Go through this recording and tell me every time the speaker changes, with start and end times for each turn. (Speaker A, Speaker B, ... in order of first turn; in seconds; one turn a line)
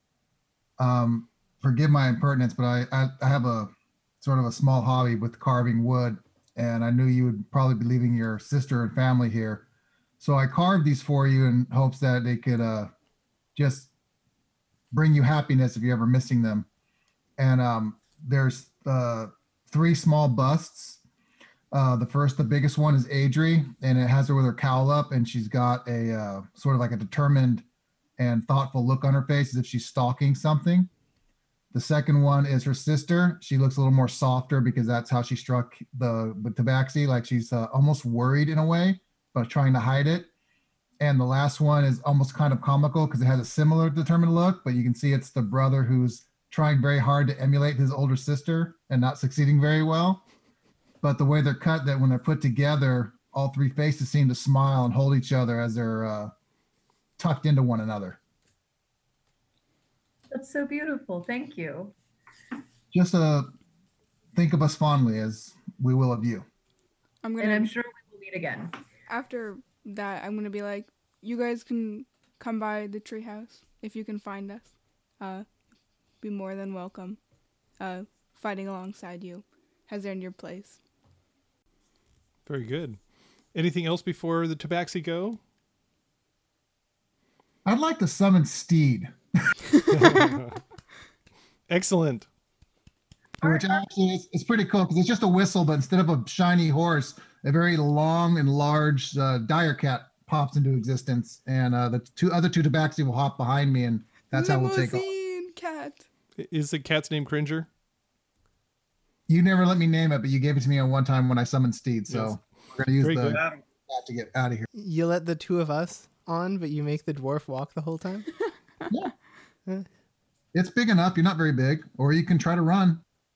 Speaker A: 0.8-9.7
Speaker A: 10.2-12.9
Speaker A: 13.6-13.9
Speaker A: 14.9-16.7
Speaker A: 17.4-21.0
Speaker A: 21.7-27.6
Speaker A: 28.2-30.9
Speaker A: 31.7-40.3
Speaker A: 41.0-50.2
Speaker A: 51.0-56.3
Speaker A: 57.2-58.2
Speaker B: 60.3-61.9
Speaker A: 62.9-63.5
Speaker A: 64.3-66.4
Speaker C: 67.2-67.7
Speaker B: 67.4-68.7
Speaker C: 69.1-74.7
Speaker C: 75.2-75.5
Speaker C: 76.2-77.2
Speaker C: 77.8-80.8
Speaker D: 82.5-83.0
Speaker D: 83.5-85.4
Speaker A: 87.6-89.1
Speaker D: 89.9-90.6
Speaker D: 91.7-92.2
Speaker A: 93.4-105.1
Speaker B: 93.4-93.7
Speaker C: 104.2-106.0
Speaker D: 106.4-107.7
Speaker A: 109.3-114.7
Speaker D: 112.1-112.3
Speaker D: 113.0-113.4
Speaker E: 114.7-118.3
Speaker A: 120.5-123.0